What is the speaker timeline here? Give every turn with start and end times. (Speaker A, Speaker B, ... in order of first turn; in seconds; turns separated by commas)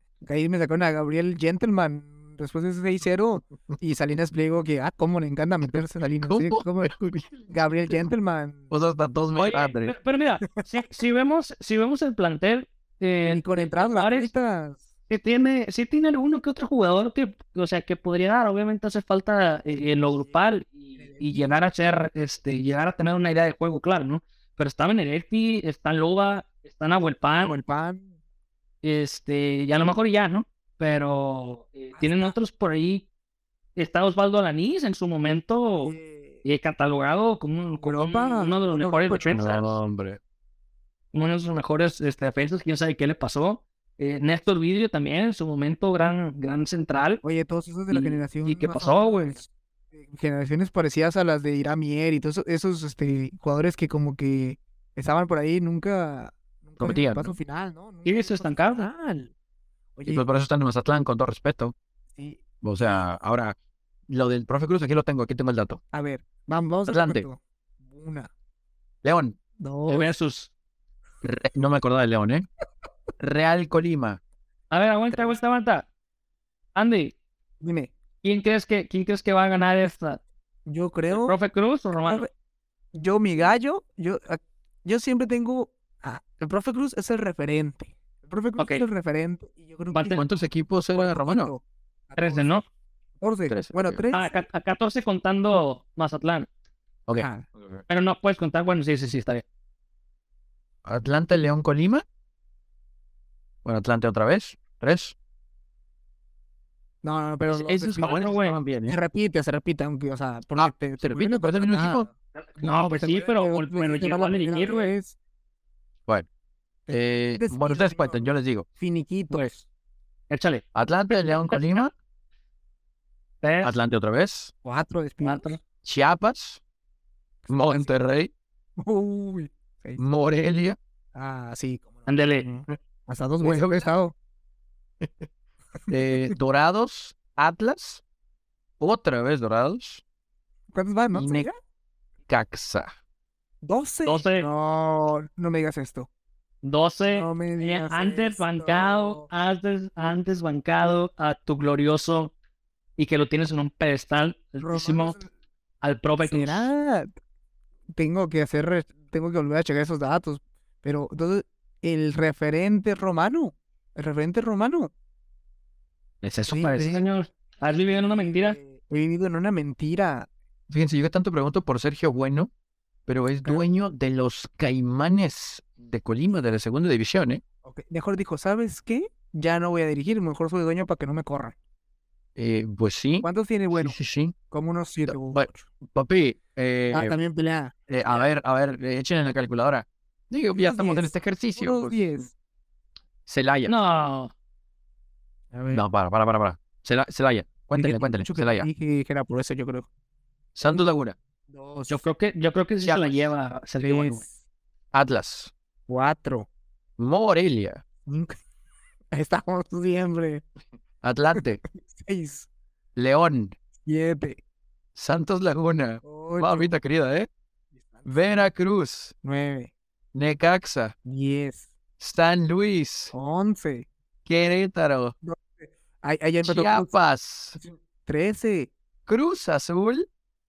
Speaker A: 0.2-6.9, Speaker B: 6.2-8.1, Speaker A: 7.5-8.7, Speaker B: 8.7-9.9, Speaker C: 9.4-14.3, Speaker A: 13.2-14.8, Speaker C: 15.1-27.6, Speaker A: 20.0-20.4, Speaker A: 21.0-21.6, Speaker A: 27.4-28.1, Speaker C: 28.8-33.1, Speaker A: 31.9-32.4, Speaker C: 33.8-39.6, Speaker A: 35.8-36.4, Speaker A: 37.8-39.4, Speaker B: 39.3-40.2, Speaker C: 41.1-47.2, Speaker A: 47.2-59.3, Speaker C: 47.9-49.4, Speaker B: 56.8-57.4, Speaker C: 58.0-58.9, Speaker A: 60.0-60.2, Speaker B: 60.1-61.7, Speaker A: 62.1-63.0, Speaker B: 62.6-63.5, Speaker B: 64.1-65.8, Speaker A: 65.9-68.3, Speaker B: 66.9-67.3, Speaker B: 69.0-69.3, Speaker A: 69.6-70.1, Speaker C: 69.9-70.5, Speaker B: 71.2-72.5, Speaker B: 73.2-74.2, Speaker C: 74.7-75.9, Speaker A: 75.1-75.4, Speaker C: 76.7-77.1, Speaker A: 77.6-77.9, Speaker C: 78.2-80.2, Speaker A: 80.7-81.3, Speaker C: 81.1-82.2, Speaker A: 82.9-90.4, Speaker C: 88.6-88.8, Speaker C: 89.9-90.2, Speaker B: 90.1-91.5, Speaker A: 90.9-92.7, Speaker C: 92.2-92.6, Speaker A: 93.2-94.4, Speaker B: 93.5-94.0, Speaker C: 94.1-96.5, Speaker B: 97.1-97.8, Speaker A: 97.2-97.5, Speaker C: 97.9-99.4, Speaker B: 100.8-102.0, Speaker B: 103.6-105.1, Speaker A: 107.0-108.2, Speaker B: 107.5-109.0, Speaker C: 108.0-108.5, Speaker A: 108.9-112.1, Speaker B: 110.6-112.1, Speaker C: 112.3-114.9, Speaker A: 112.8-115.2, Speaker B: 116.9-118.7, Speaker A: 117.4-119.7, Speaker C: 120.3-121.8, Speaker B: 120.7-121.9, Speaker C: 123.4-123.7, Speaker B: 123.6-124.5, Speaker A: 124.6-125.5, Speaker C: 125.2-125.6, Speaker B: 125.8-126.6, Speaker A: 127.5-127.9, Speaker B: 127.5-128.3, Speaker A: 128.8-130.0, Speaker B: 130.0-130.8, Speaker A: 131.1-134.1, Speaker C: 132.1-132.4, Speaker B: 133.4-133.9, Speaker B: 135.0-135.3, Speaker A: 135.8-136.3, Speaker B: 135.9-138.0, Speaker B: 138.8-140.0, Speaker A: 140.7-141.6, Speaker B: 141.1-141.5, Speaker B: 142.3-142.9, Speaker A: 143.6-146.1, Speaker C: 144.0-144.5, Speaker C: 146.6-152.3, Speaker A: 147.1-149.3, Speaker C: 153.0-155.2, Speaker A: 154.6-155.3, Speaker C: 155.8-156.7, Speaker A: 156.2-157.1, Speaker A: 157.9-164.9, Speaker B: 166.2-166.7, Speaker C: 166.4-168.6, Speaker A: 166.5-167.1, Speaker A: 167.9-170.3, Speaker B: 170.7-172.5, Speaker B: 173.1-177.4, Speaker A: 173.4-173.7, Speaker A: 177.6-181.5, Speaker B: 182.3-184.3, Speaker A: 183.2-184.0, Speaker A: 184.5-185.7, Speaker B: 185.1-187.1, Speaker A: 186.9-188.2, Speaker B: 187.9-192.1, Speaker A: 190.6-192.3, Speaker B: 193.3-193.7, Speaker C: 193.7-194.3, Speaker A: 195.5-195.8, Speaker B: 195.7-198.7, Speaker A: 197.7-199.9, Speaker B: 200.6-201.2, Speaker A: 201.5-202.0, Speaker C: 201.9-204.2, Speaker B: 202.8-203.3, Speaker A: 203.8-204.4, Speaker B: 204.9-205.5, Speaker A: 205.9-206.5, Speaker B: 207.0-207.8, Speaker A: 208.1-208.3, Speaker A: 209.1-210.4, Speaker B: 211.0-211.6, Speaker A: 211.3-212.5, Speaker B: 212.9-213.5, Speaker A: 213.8-214.4, Speaker B: 214.9-217.3, Speaker A: 216.0-216.7, Speaker A: 217.8-218.4, Speaker B: 218.0-219.1, Speaker A: 219.2-219.7, Speaker B: 220.1-220.9, Speaker A: 221.1-221.7, Speaker B: 222.0-223.1, Speaker A: 223.1-223.9, Speaker B: 224.2-225.1, Speaker A: 225.2-226.9, Speaker B: 226.4-227.6, Speaker A: 227.5-228.7, Speaker B: 229.1-230.1